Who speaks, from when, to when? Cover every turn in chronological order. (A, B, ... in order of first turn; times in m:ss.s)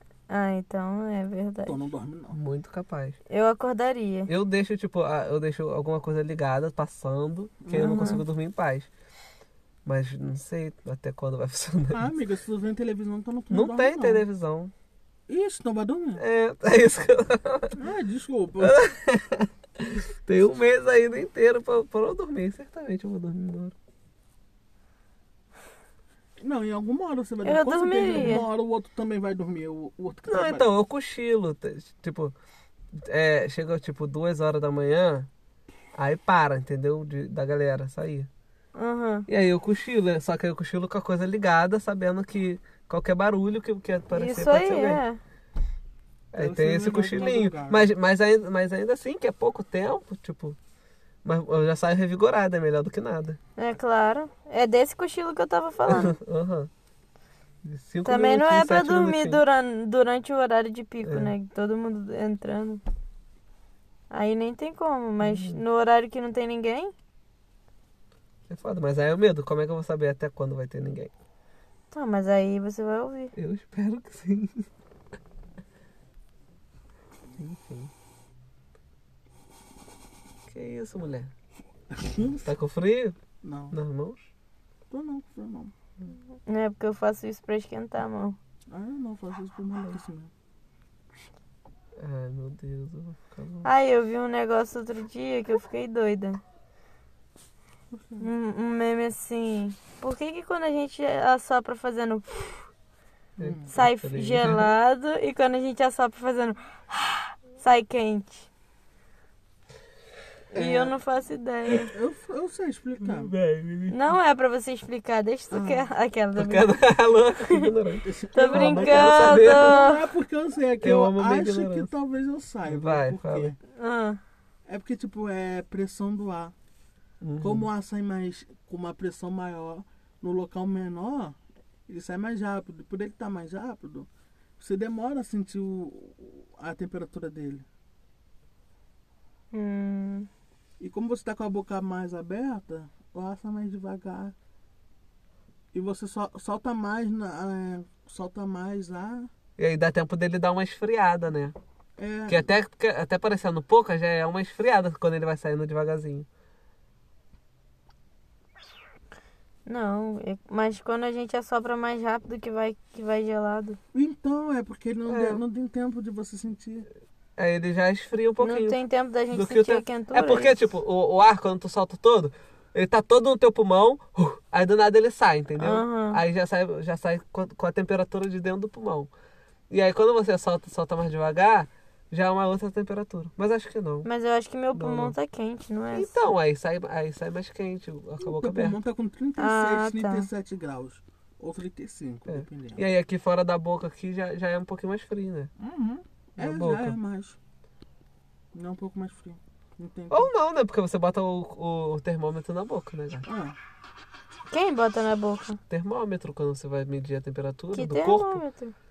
0:00.3-0:01.8 A
0:01.6-0:02.4 B
0:02.3-0:03.2 C
0:03.3-0:04.3 A
0:04.3-0:08.9 C
0:07.6-0:08.2 B
0:07.7-0:08.2 A
0:09.8-0:12.1 C
0:11.9-0:14.2 B
0:13.5-0:14.7 C
0:15.3-0:16.2 B
0:16.2-0:17.8 C
0:17.7-0:18.8 B
0:18.6-0:23.7 C
0:26.4-0:30.7 B
0:27.4-0:28.5 A
0:30.3-0:32.3 C
0:32.9-0:35.3 C
0:35.9-0:38.3 C
0:38.7-0:39.2 A
0:39.3-0:45.0 C
0:44.1-0:45.2 A
0:46.3-0:50.6 C
0:46.3-0:47.9 B
0:51.2-0:53.4 C
0:53.6-0:56.2 A
0:55.8-0:56.7 C
0:57.6-0:59.4 C
0:58.0-1:02.8 A
1:01.0-1:01.3 C
1:04.1-1:06.9 A
1:05.2-1:05.6 C
1:08.5-1:11.1 C
1:11.9-1:13.3 A
1:13.3-1:14.7 C
1:17.4-1:17.9 C
1:20.5-1:21.3 C
1:21.9-1:22.4 B
1:22.2-1:23.2 C
1:23.4-1:23.8 B
1:23.7-1:24.3 C
1:24.9-1:25.7 B
1:26.4-1:28.4 A
1:28.7-1:30.3 B
1:32.0-1:33.7 C
1:33.6-1:36.4 A
1:37.9-1:38.3 B
1:38.2-1:42.6 A
1:43.4-1:44.7 C
1:43.4-1:43.7 B
1:43.7-1:48.5 A
1:50.5-1:51.9 A
1:50.5-1:50.9 C
1:51.9-1:53.3 B
1:53.0-1:54.1 C
1:53.9-1:56.8 A
1:55.5-1:59.8 C
1:57.4-1:57.7 A
1:58.0-2:03.6 B
1:58.3-2:00.1 A
2:00.8-2:01.9 C
2:02.7-2:03.5 C
2:03.8-2:04.2 A
2:04.7-2:06.5 B
2:07.2-2:07.7 C
2:07.4-2:17.6 B
2:19.5-2:20.3 A
2:20.8-2:24.3 B
2:25.7-2:29.3 B
2:29.6-2:31.5 C
2:32.0-2:32.4 B
2:32.3-2:36.3 C
2:39.6-2:43.8 A
2:43.9-2:46.9 B
2:45.1-2:45.4 C
2:47.4-2:48.8 C
2:48.4-2:50.5 A
2:49.3-2:59.1 C
2:55.6-2:56.2 A
2:59.7-3:04.1 C
3:04.0-3:06.1 A
3:04.7-3:05.1 C
3:05.9-3:08.8 C
3:08.2-3:12.8 B
3:09.4-3:10.3 A
3:12.2-3:15.5 C
3:15.6-3:17.4 B
3:16.4-3:17.0 C
3:18.5-3:20.3 B
3:20.1-3:23.3 C
3:23.2-3:23.6 B
3:24.5-3:25.6 A
3:25.7-3:28.4 C
3:27.7-3:28.7 A